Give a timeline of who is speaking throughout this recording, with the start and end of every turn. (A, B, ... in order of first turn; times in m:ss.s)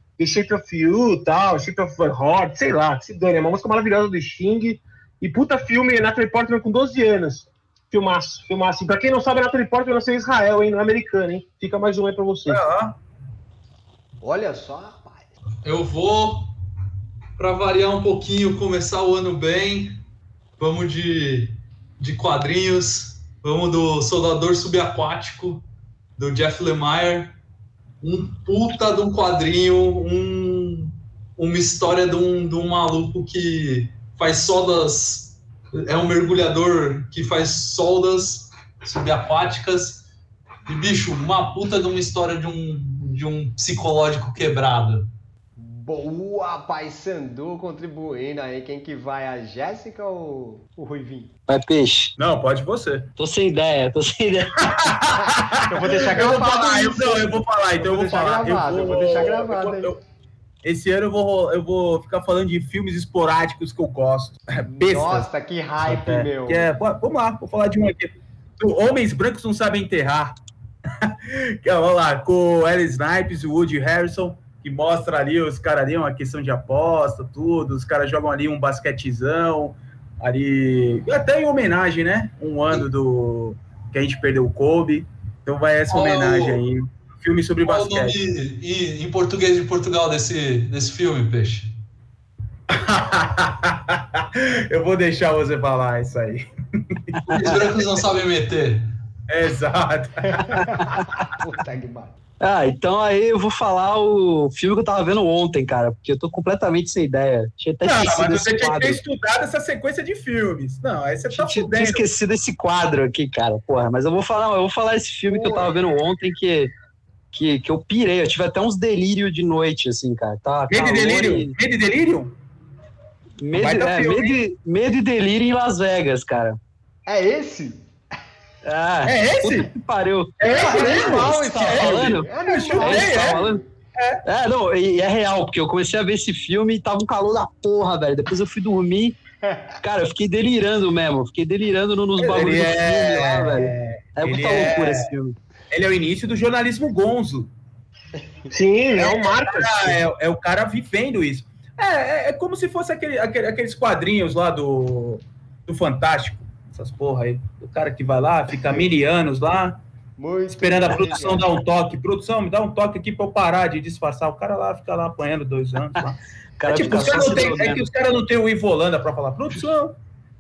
0:00.2-0:12.6 A
0:12.5-0:13.0 B
0:14.2-0:15.3 C
0:15.6-0:16.5 D
0:17.4-0:20.0 D
0:20.6-0:25.6 D
0:26.2-0:27.4 D
0:28.0-0:40.0 D
0:40.7-0:45.1 D
0:45.6-0:51.3 C
0:51.5-0:52.1 E
0:52.2-0:53.1 B
0:53.2-0:54.7 E
0:54.6-1:00.0 B
0:55.2-1:00.0 C
1:00.6-1:05.3 B
1:04.7-1:06.7 C
1:05.8-1:10.4 B
1:11.0-1:28.2 B
1:25.9-1:26.6 D
1:27.6-1:31.7 D
1:32.7-1:37.5 B
1:37.2-1:37.5 E
1:37.3-1:38.9 D
1:39.3-1:40.6 B
1:40.3-1:42.2 C
1:40.6-1:40.9 E
1:42.4-1:49.0 E
1:47.8-1:52.1 B
1:51.3-1:56.7 E
1:55.3-1:55.7 C
1:57.3-2:01.6 E
2:00.7-2:02.3 B
2:03.4-2:06.6 E
2:03.5-2:04.4 B
2:07.1-2:07.8 C
2:08.6-2:13.6 E
2:09.0-2:09.7 B
2:10.4-2:13.4 B
2:10.5-2:13.7 C
2:10.5-2:10.9 A
2:14.0-2:14.2 B
2:14.2-2:19.2 E
2:19.4-2:19.7 C
2:19.8-2:25.4 E
2:22.2-2:25.1 B
2:25.7-2:27.5 B
2:28.5-2:30.0 A
2:29.0-2:39.8 B
2:40.2-2:41.6 C
2:40.5-2:50.0 B
2:46.6-2:47.8 E